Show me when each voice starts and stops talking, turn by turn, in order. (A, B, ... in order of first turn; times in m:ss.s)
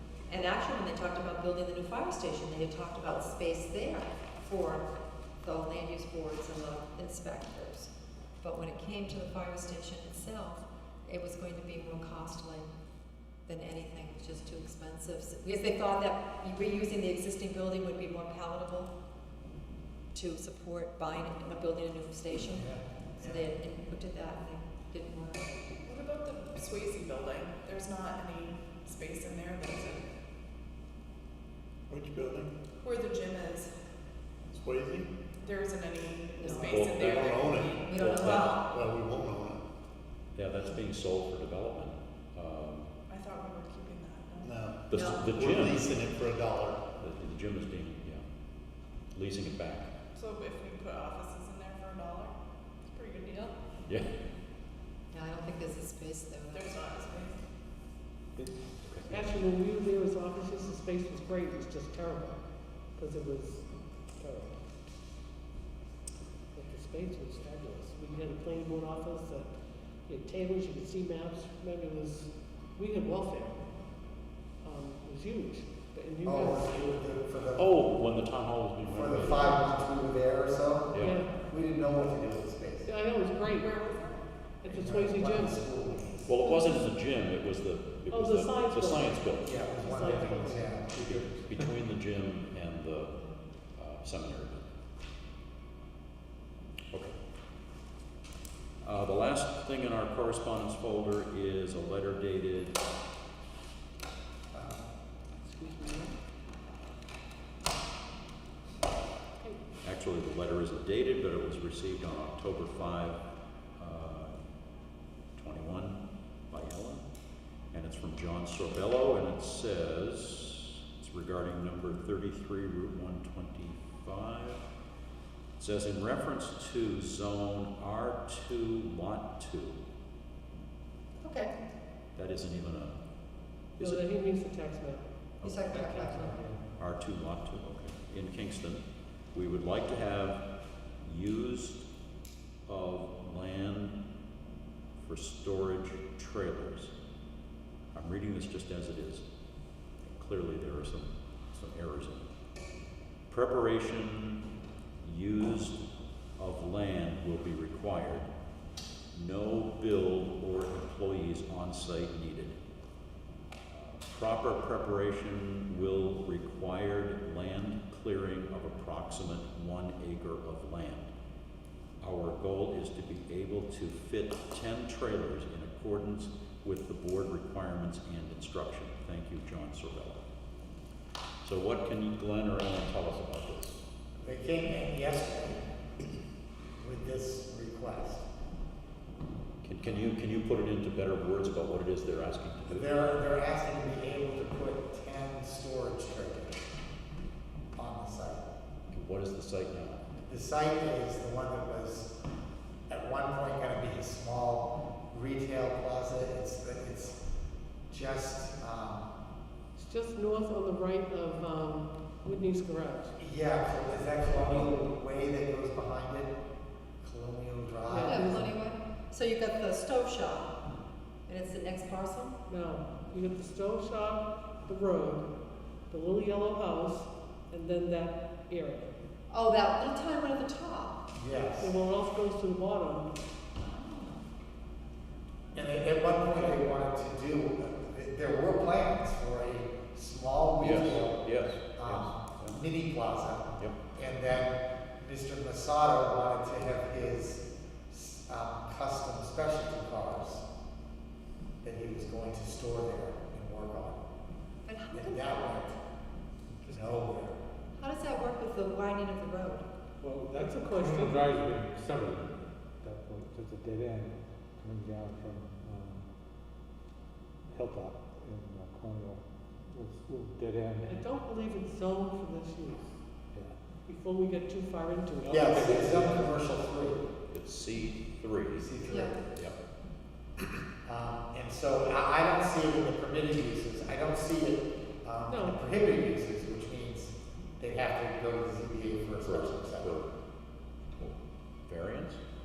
0:00.3-0:04.9 A
0:05.4-0:07.9 A
0:08.4-0:12.7 A
0:13.5-0:18.9 A
0:20.1-0:25.4 A
0:22.5-0:23.5 B
0:25.8-0:30.1 C
0:31.9-0:32.5 D
0:32.8-0:33.7 C
0:34.5-0:35.1 D
0:35.4-0:38.0 C
0:36.4-0:39.6 D
0:36.5-0:38.5 E
0:37.9-0:38.6 A
0:38.5-0:38.8 C
0:40.4-0:42.9 E
0:43.1-0:44.7 C
0:44.4-0:46.8 D
0:44.9-0:46.0 E
0:44.9-0:45.2 A
0:47.0-0:48.2 E
0:49.1-0:49.9 E
0:50.1-0:52.4 C
0:52.9-0:53.6 C
0:55.1-0:56.7 A
0:56.5-0:57.4 C
0:58.4-0:59.2 F
0:59.1-1:02.4 G
1:03.0-1:04.6 G
1:06.5-1:09.5 G
1:10.1-1:13.6 G
1:14.6-1:16.7 G
1:16.2-1:17.8 B
1:17.6-1:19.7 E
1:18.9-1:22.9 B
1:20.9-1:21.4 G
1:22.8-1:23.8 G
1:23.9-1:24.2 C
1:24.6-1:25.6 G
1:24.7-1:26.4 B
1:26.3-1:29.5 E
1:26.4-1:26.8 G
1:28.1-1:30.8 G
1:29.4-1:31.3 B
1:31.0-1:33.2 E
1:33.8-1:34.6 E
1:38.8-1:42.8 E
1:44.5-1:44.9 B
1:45.4-1:46.2 G
1:49.8-1:53.2 E
1:53.8-1:54.4 E
1:55.4-1:57.0 E
1:57.7-2:04.6 E
2:05.6-2:09.8 E
2:11.2-2:11.5 A
2:12.2-2:13.0 E
2:13.8-2:14.1 E
2:13.8-2:15.1 G
2:15.4-2:15.7 E
2:15.4-2:16.4 A
2:15.7-2:16.6 B
2:15.7-2:16.3 G
2:16.8-2:18.8 E
2:19.3-2:20.4 E
2:21.0-2:21.8 E
2:22.7-2:24.0 E
2:25.0-2:26.9 E
2:27.9-2:29.2 E
2:30.1-2:32.3 E
2:33.3-2:34.4 E
2:35.0-2:35.8 E
2:36.4-2:38.3 E
2:39.1-2:42.6 E
2:43.7-2:51.1 E
2:52.0-3:00.2 E
3:01.4-3:03.8 E
3:04.2-3:05.6 B
3:06.8-3:08.2 B
3:09.6-3:13.0 E
3:12.7-3:16.7 B
3:17.8-3:18.5 B
3:18.9-3:20.0 E
3:20.3-3:22.2 B
3:22.9-3:27.2 B
3:27.9-3:29.1 B
3:29.8-3:33.2 G
3:33.2-3:36.3 B
3:37.0-3:38.5 B
3:37.9-3:38.4 G
3:38.0-3:40.6 A
3:41.3-3:42.4 A
3:42.5-3:45.3 G
3:45.9-3:48.9 G
3:49.3-3:51.0 A
3:51.2-3:51.7 B
3:51.6-3:53.1 G
3:53.6-3:54.2 A
3:55.5-4:01.2 B
4:00.6-4:02.6 E
4:01.8-4:10.4 B
4:11.6-4:14.0 B
4:14.6-4:15.5 A
4:14.9-4:15.8 B
4:16.6-4:17.3 F
4:16.7-4:17.4 B
4:17.8-4:19.7 A
4:20.0-4:26.1 F
4:20.3-4:21.3 G
4:27.5-4:31.0 F
4:30.8-4:33.0 G
4:33.8-4:35.8 G
4:35.2-4:36.3 F
4:35.3-4:37.0 B
4:37.3-4:38.8 E
4:38.6-4:39.2 B
4:38.9-4:39.2 A
4:40.8-4:50.0 B
4:45.3-4:45.6 G
4:49.2-4:50.1 E
4:50.9-4:52.2 E